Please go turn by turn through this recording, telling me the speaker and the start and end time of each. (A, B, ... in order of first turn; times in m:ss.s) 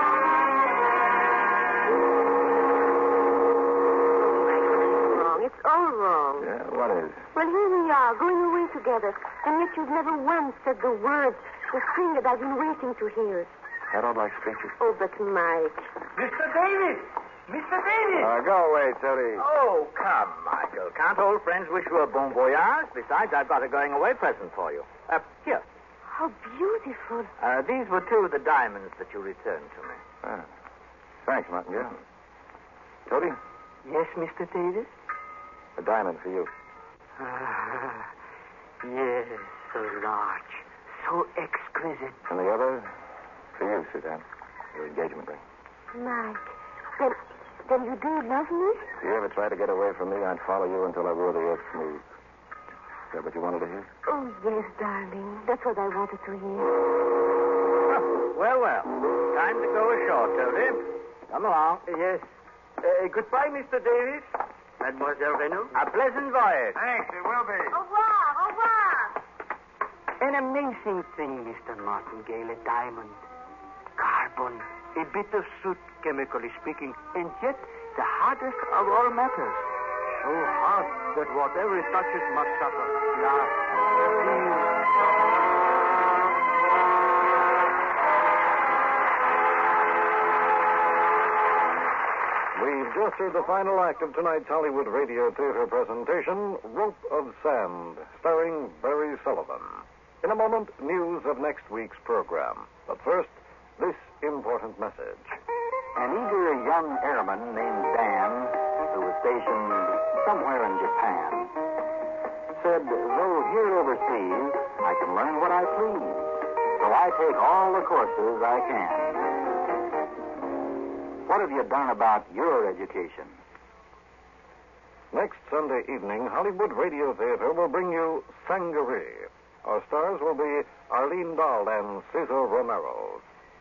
0:04.6-0:06.5 A
0:06.4-0:07.2 B
0:07.4-0:13.5 A
0:13.9-0:14.8 B
0:14.8-0:15.9 A
0:16.4-0:16.9 C
0:17.5-0:18.2 C
0:18.2-0:19.5 B
0:19.4-0:25.6 D
0:26.1-0:27.3 A
0:27.4-0:30.0 D
0:31.2-0:32.0 B
0:33.1-0:33.4 B
0:33.8-0:34.9 C
0:35.8-0:36.5 B
0:37.2-0:38.1 C
0:38.8-0:42.2 C
0:42.3-0:42.9 B
0:43.6-0:45.4 B
0:45.9-0:48.9 A
0:49.0-0:52.0 B
0:53.1-0:53.9 B
0:54.1-0:56.9 A
0:57.9-1:01.9 D
1:02.8-1:04.2 C
1:04.8-1:05.7 C
1:05.7-1:06.8 D
1:07.7-1:09.1 A
1:10.2-1:13.2 C
1:14.0-1:23.6 C
1:24.1-1:24.8 C
1:32.6-1:45.4 E
1:46.0-1:51.6 F
1:52.5-1:59.2 F
2:01.3-2:03.4 F
2:05.1-2:13.2 E